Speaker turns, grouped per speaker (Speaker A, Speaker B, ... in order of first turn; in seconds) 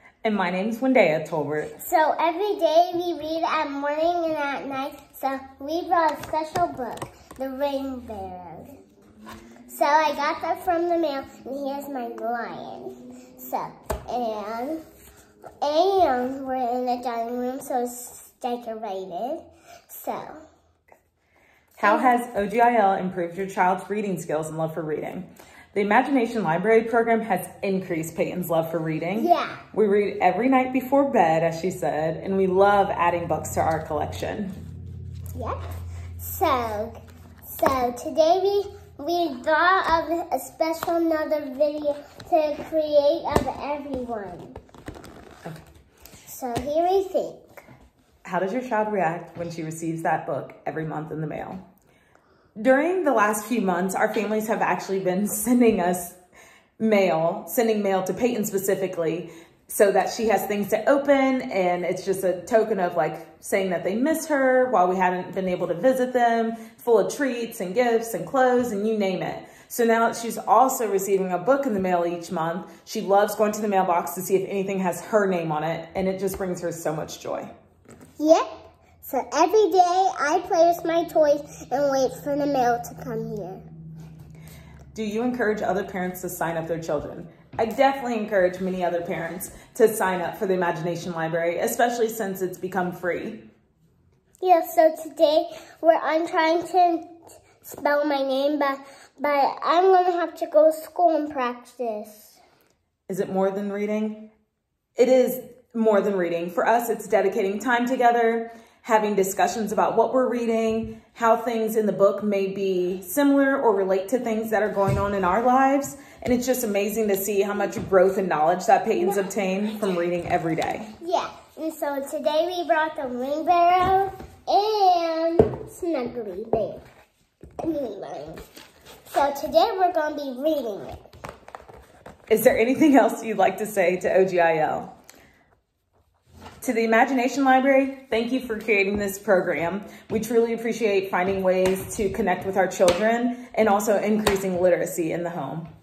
Speaker A: 0.2-1.8, 21.8-34.5, 48.2-51.6, 52.6-56.2, 56.8-77.5, 84.9-93.4, 103.1-104.3, 105.0-120.9, 132.3-134.9, 136.6-145.7
Speaker B: 1.8-8.8, 9.7-14.8, 15.6-20.4, 21.8-22.1, 29.2-29.6, 35.4-35.6, 36.2-44.6, 46.2-47.5, 78.2-78.5, 79.0-83.7, 94.4-102.4, 121.0-126.8, 127.6-128.4, 129.1-131.0